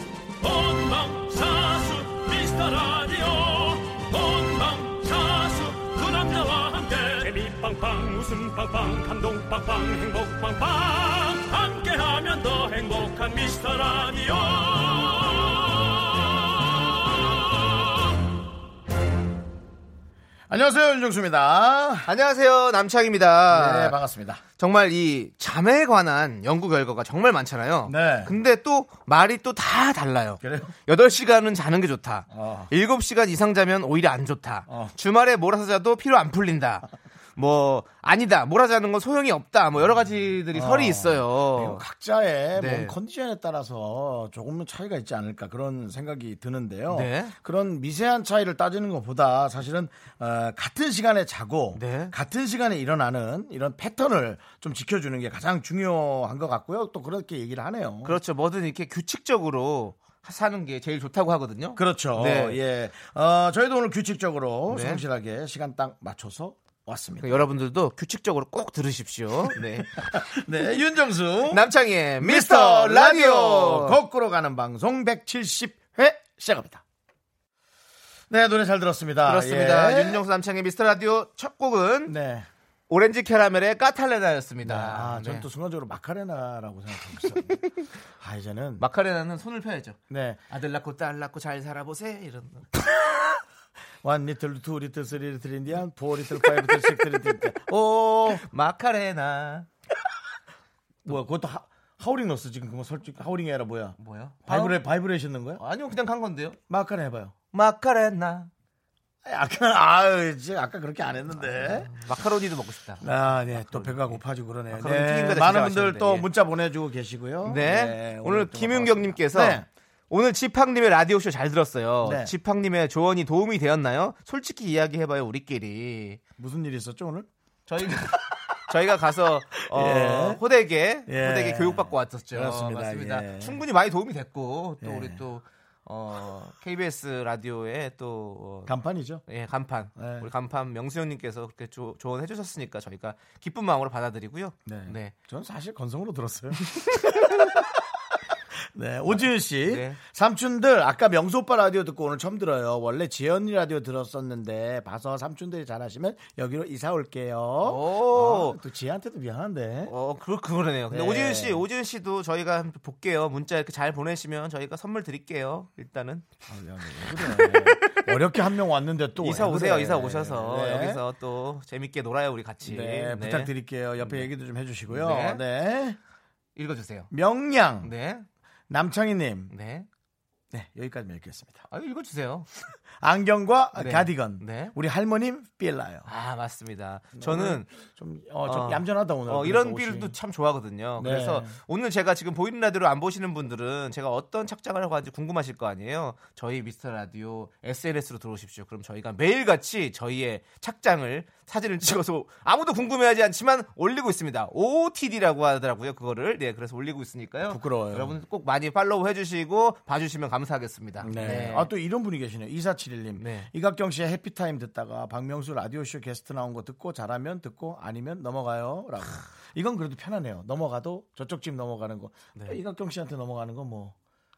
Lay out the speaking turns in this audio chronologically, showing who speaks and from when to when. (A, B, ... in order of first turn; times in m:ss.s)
0:00.4-0:17.9 A
0:20.5-0:22.1 B
0:22.0-0:24.0 C
0:23.5-0:24.4 B
0:24.6-0:41.8 C
0:27.8-0:28.3 B
0:30.4-0:30.7 B
0:32.3-0:32.7 B
0:34.7-0:34.9 B
0:40.5-0:58.2 B
0:42.6-0:42.9 C
0:46.9-0:47.3 C
0:51.7-0:52.1 C
0:58.0-1:02.6 C
1:01.8-1:07.4 B
1:04.7-1:05.0 C
1:07.2-1:10.2 C
1:10.0-1:16.8 B
1:11.5-1:14.0 C
1:18.3-1:20.2 B
1:19.2-1:22.1 C
1:22.0-1:22.5 B
1:22.9-1:25.4 C
1:24.6-1:27.6 B
1:28.2-1:28.8 B
1:28.8-1:30.0 C
1:30.1-1:30.4 B
1:30.5-1:32.7 C
1:32.8-1:33.3 B
1:34.0-1:38.4 B
1:38.3-1:39.7 C
1:41.0-1:45.6 B
1:44.0-1:44.8 C
1:45.6-1:46.6 C
1:46.7-1:47.3 B
1:47.5-1:48.5 C
1:49.2-1:51.9 B
1:51.4-1:54.2 C
1:53.0-1:59.6 B
1:54.7-1:56.3 C
1:57.4-2:06.2 C
2:02.0-2:02.3 B
2:06.4-2:07.3 B
2:07.7-2:18.7 C
2:07.9-2:08.4 B
2:09.6-2:10.4 B
2:11.0-2:13.6 B
2:14.8-2:15.2 B
2:18.7-2:19.2 B
2:19.3-2:25.1 C
2:20.0-2:20.3 B
2:24.6-2:39.9 B
2:26.8-2:27.4 C
2:29.1-2:30.0 C
2:37.6-2:38.6 C
2:39.9-2:46.3 C
2:40.9-2:41.6 B
2:46.4-2:51.0 B
2:47.0-2:48.1 C
2:49.2-2:54.3 C
2:52.6-2:56.0 B
2:54.9-2:55.4 C
2:56.6-2:57.1 C
2:57.1-2:57.9 B
2:57.8-2:58.2 C
2:58.7-2:59.5 B
2:59.5-2:59.9 C
3:00.5-3:01.6 B
3:01.7-3:02.5 C
3:03.0-3:06.1 B
3:03.8-3:04.7 C
3:06.0-3:07.7 C
3:07.2-3:10.1 B
3:08.4-3:31.7 C
3:11.0-3:11.6 B
3:27.5-3:28.2 B
3:31.0-3:43.9 B
3:33.2-3:33.5 C